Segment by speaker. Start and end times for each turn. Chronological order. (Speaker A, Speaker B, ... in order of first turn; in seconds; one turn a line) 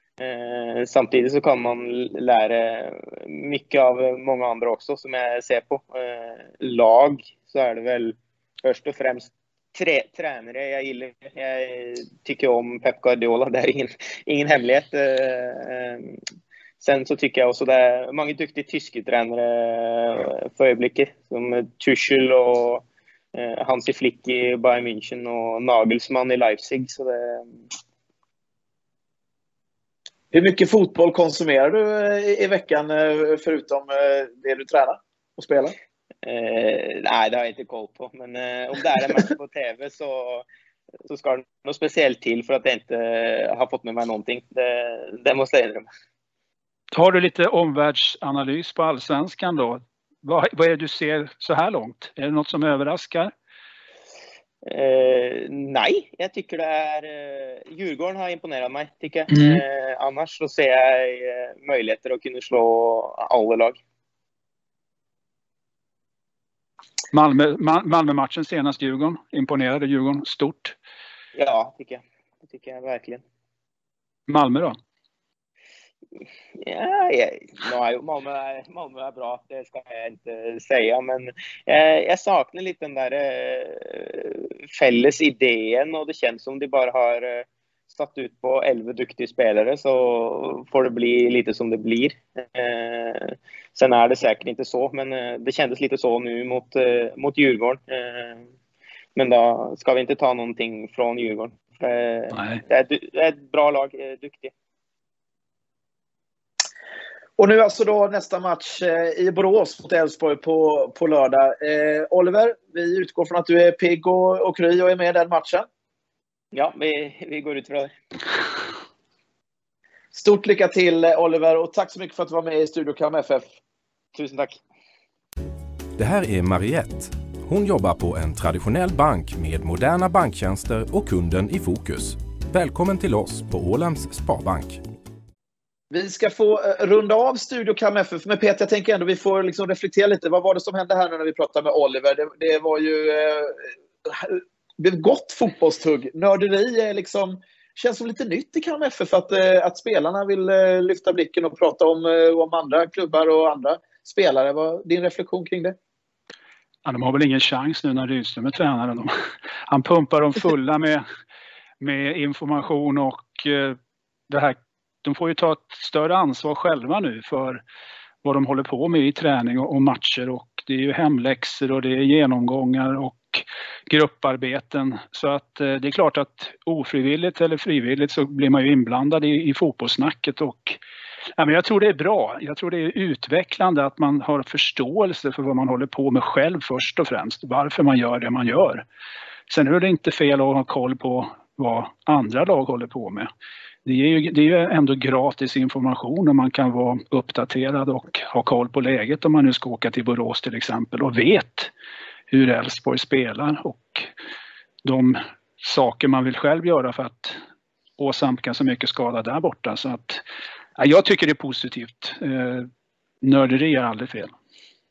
Speaker A: 0.2-16.2
Speaker A: 16.8-27.5
Speaker B: 30.3-35.8
Speaker A: 36.2-40.5
Speaker A: 41.1-45.9
Speaker C: 46.9-53.3
Speaker A: 54.6-63.8
Speaker C: 59.3-59.6
Speaker C: 67.1-70.7
Speaker A: 71.3-73.2
Speaker C: 74.3-74.8
Speaker A: 76.6-98.4
Speaker A: 99.2-104.5
Speaker C: 102.3-102.6
Speaker B: 107.4-115.7
Speaker A: 116.5-117.9
Speaker B: 120.1-123.5
Speaker A: 124.1-124.6
Speaker D: 126.0-134.8
Speaker B: 135.9-155.8
Speaker C: 156.8-159.1
Speaker C: 159.7-161.0
Speaker C: 161.8-163.8
Speaker C: 164.3-167.6
Speaker C: 168.2-180.8
Speaker C: 181.4-188.8
Speaker C: 189.5-193.3
Speaker C: 193.8-201.7
Speaker C: 202.3-204.1
Speaker C: 204.8-207.4
Speaker C: 208.0-210.2
Speaker C: 210.8-212.7
Speaker C: 213.2-214.3